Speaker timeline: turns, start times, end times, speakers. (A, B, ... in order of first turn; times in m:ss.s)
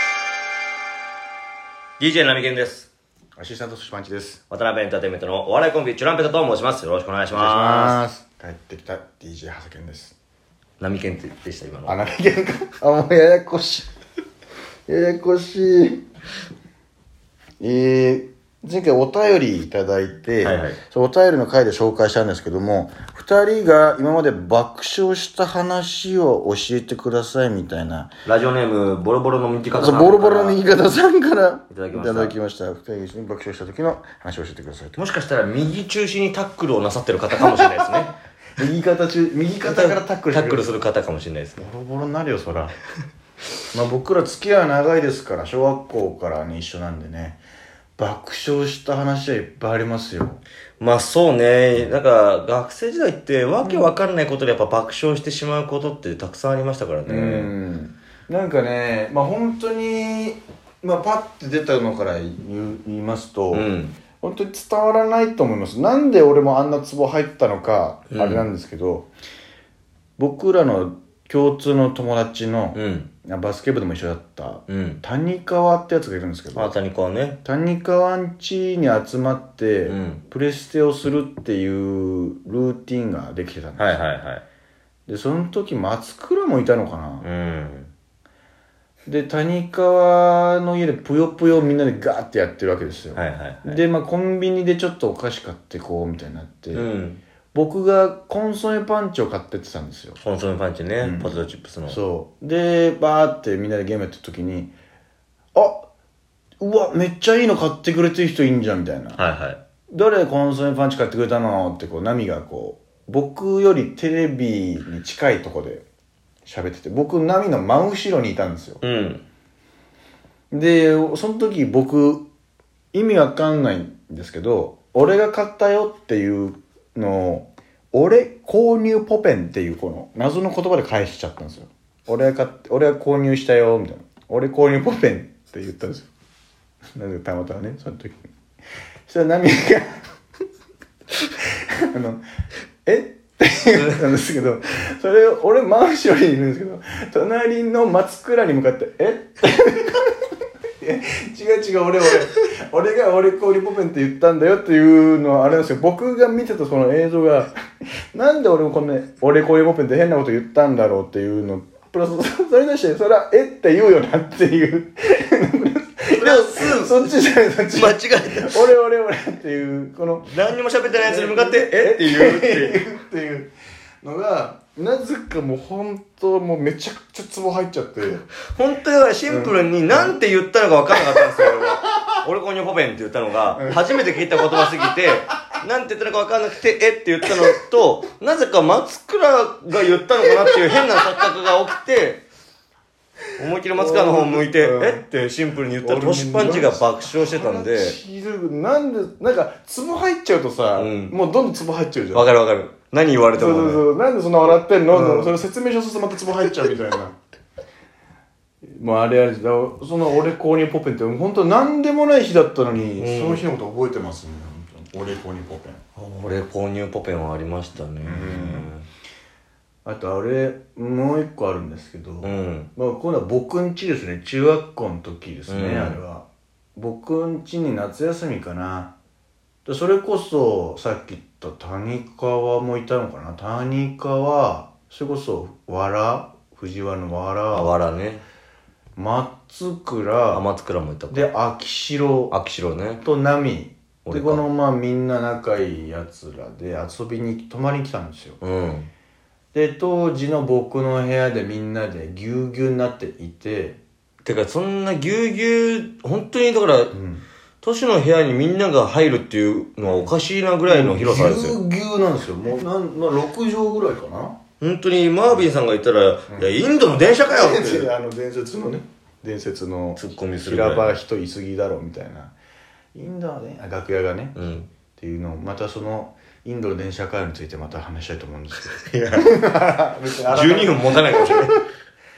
0:02.0-0:02.9 A
0:03.4-0:04.4 B
0:04.5-0:08.0 A
0:07.3-0:10.2 B
0:10.8-0:12.0 A
0:11.9-0:13.9 B
0:14.9-0:16.0 B
0:17.6-0:28.1 B
0:20.4-0:20.8 A
0:28.2-0:30.6 A
0:29.7-0:35.0 B
0:31.7-0:32.4 A
0:35.0-0:38.1 A
0:37.4-0:37.9 B
0:38.6-0:40.7 B
0:39.6-0:41.7 A
0:41.6-0:42.7 B
0:43.7-0:47.4 B
0:48.0-0:50.4 B
0:50.8-0:57.5 A
0:53.6-0:53.9 B
0:57.0-1:03.7 B
1:03.5-1:04.0 A
1:04.2-1:09.1 B
1:08.1-1:08.5 A
1:10.2-1:16.7 B
1:12.8-1:13.1 A
1:14.7-1:15.0 A
1:16.5-1:17.4 A
1:17.4-1:24.0 B
1:19.8-1:20.2 A
1:23.8-1:24.4 A
1:25.1-1:27.3 B
1:27.2-1:27.9 A
1:29.1-1:36.9 B
1:33.2-1:33.8 A
1:36.7-1:37.2 A
1:37.5-1:40.2 B
1:40.2-1:42.0 A
1:41.0-1:44.7 B
1:45.6-1:45.9 B
1:46.6-1:49.2 B
1:49.2-1:49.6 A
1:49.9-1:55.8 B
1:56.5-1:58.8 B
1:58.8-1:59.2 A
2:00.5-2:02.2 B
2:02.9-2:16.1 B
2:17.0-2:18.2 B
2:19.1-2:20.0 B
2:21.9-2:22.2 B
2:22.9-2:30.2 B
2:30.8-2:37.5 B
2:38.1-2:50.4 B
2:46.1-2:47.1 A
2:47.7-2:48.7 A
2:50.3-2:52.8 A
2:50.9-2:58.2 B
2:58.6-3:12.2 A
2:59.3-3:00.1 B
3:00.9-3:02.0 B
3:03.5-3:03.8 B
3:13.4-3:18.0 A
3:13.8-3:15.0 B
3:15.8-3:22.3 B
3:20.8-3:21.2 A
3:22.1-3:23.8 A
3:23.3-3:27.2 B
3:24.9-3:25.4 A
3:28.8-3:35.8 B
3:33.0-3:33.4 A
3:36.0-3:38.8 A
3:38.0-3:38.7 B
3:39.8-3:48.9 B
3:42.2-3:42.7 A
3:45.5-3:46.0 A
3:49.7-3:57.7 B
3:57.5-3:58.2 A
3:59.0-4:00.4 B
4:00.3-4:01.3 A
4:01.1-4:02.4 B
4:02.3-4:03.0 A
4:03.0-4:08.4 B
4:04.0-4:04.4 A
4:08.4-4:08.9 A
4:09.5-4:13.8 B
4:14.2-4:16.9 A
4:16.9-4:17.2 B
4:17.6-4:21.6 A
4:19.8-4:20.1 B
4:20.7-4:24.4 B
4:24.6-4:27.9 A
4:26.3-4:32.4 B
4:30.0-4:30.9 A
4:32.9-4:34.4 B
4:34.4-4:34.7 A
4:35.0-4:41.6 B
4:38.9-4:39.3 A
4:40.3-4:41.6 A